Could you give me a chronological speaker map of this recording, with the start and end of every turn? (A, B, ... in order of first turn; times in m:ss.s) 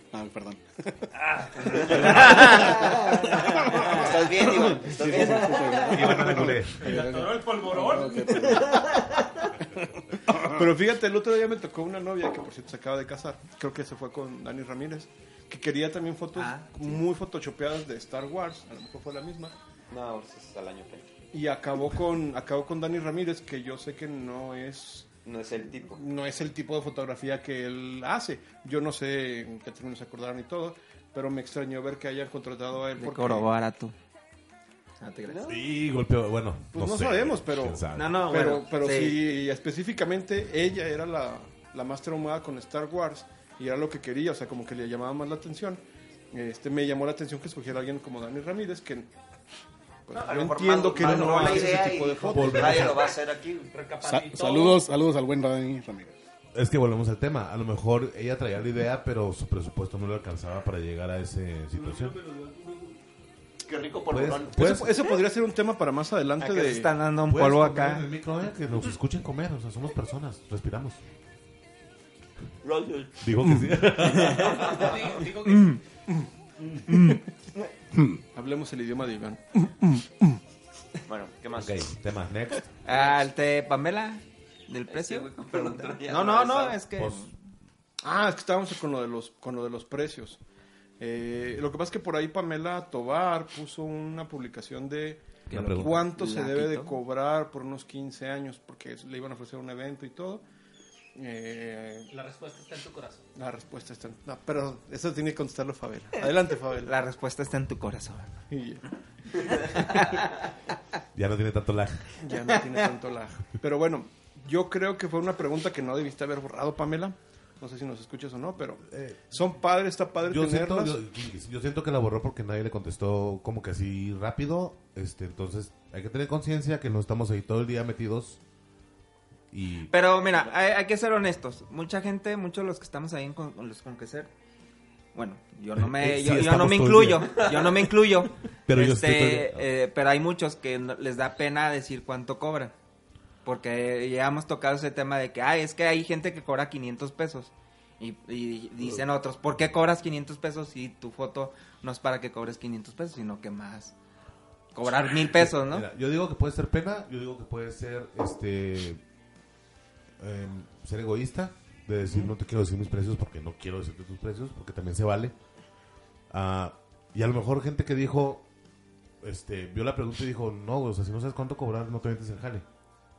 0:00.1-0:01.1 A
0:01.4-0:02.8 B
0:01.6-0:06.1 C
0:01.9-0:09.0 A
0:05.5-0:05.8 B
0:05.9-0:07.0 D
0:06.7-0:09.1 B
0:10.3-0:19.5 E
0:16.4-0:17.0 F
0:19.9-0:21.2 C
0:21.3-0:25.1 E
0:25.2-0:26.0 C
0:25.9-0:33.5 E
0:33.0-0:33.9 F
0:35.0-0:35.6 F
0:35.3-0:35.6 C
0:35.5-0:38.3 D
0:36.7-0:49.1 E
0:37.9-0:39.2 F
0:50.1-0:53.1 E
0:50.1-0:53.7 C
0:52.3-0:53.1 D
0:53.7-0:54.8 B
0:54.0-0:56.2 A
0:56.5-1:02.2 D
1:01.9-1:02.8 C
1:03.6-1:04.6 C
1:04.1-1:04.9 D
1:04.5-1:07.0 E
1:06.4-1:08.1 F
1:07.3-1:11.0 D
1:12.6-1:13.4 C
1:13.2-1:14.8 D
1:13.4-1:13.8 E
1:14.0-1:15.3 C
1:14.6-1:15.8 B
1:15.4-1:15.8 F
1:16.9-1:17.2 F
1:17.9-1:18.2 A
1:18.3-1:20.4 E
1:21.1-1:21.9 C
1:21.5-1:22.7 D
1:22.8-1:27.3 F
1:24.9-1:26.8 C
1:27.0-1:27.3 D
1:28.0-1:30.4 E
1:31.0-1:40.4 E
1:35.5-1:36.0 D
1:35.5-1:36.9 F
1:35.6-1:36.0 C
1:41.2-1:42.1 E
1:42.1-1:43.2 B
1:43.4-1:46.9 E
1:46.8-1:48.4 F
1:48.5-1:48.9 E
1:49.5-1:50.0 E
1:49.6-1:50.3 F
1:51.1-1:52.2 D
1:52.2-2:01.0 E
1:58.9-1:59.4 D
2:00.3-2:08.4 D
2:09.5-2:09.9 D
2:09.9-2:14.3 F
2:10.2-2:10.5 C
2:15.2-2:22.7 F
2:15.8-2:17.5 D
2:17.3-2:17.7 C
2:18.7-2:19.7 D
2:23.4-2:34.0 F
2:34.7-2:35.9 F
2:35.2-2:39.0 D
2:40.2-2:45.3 D
2:46.3-2:48.5 D
2:49.2-2:52.6 D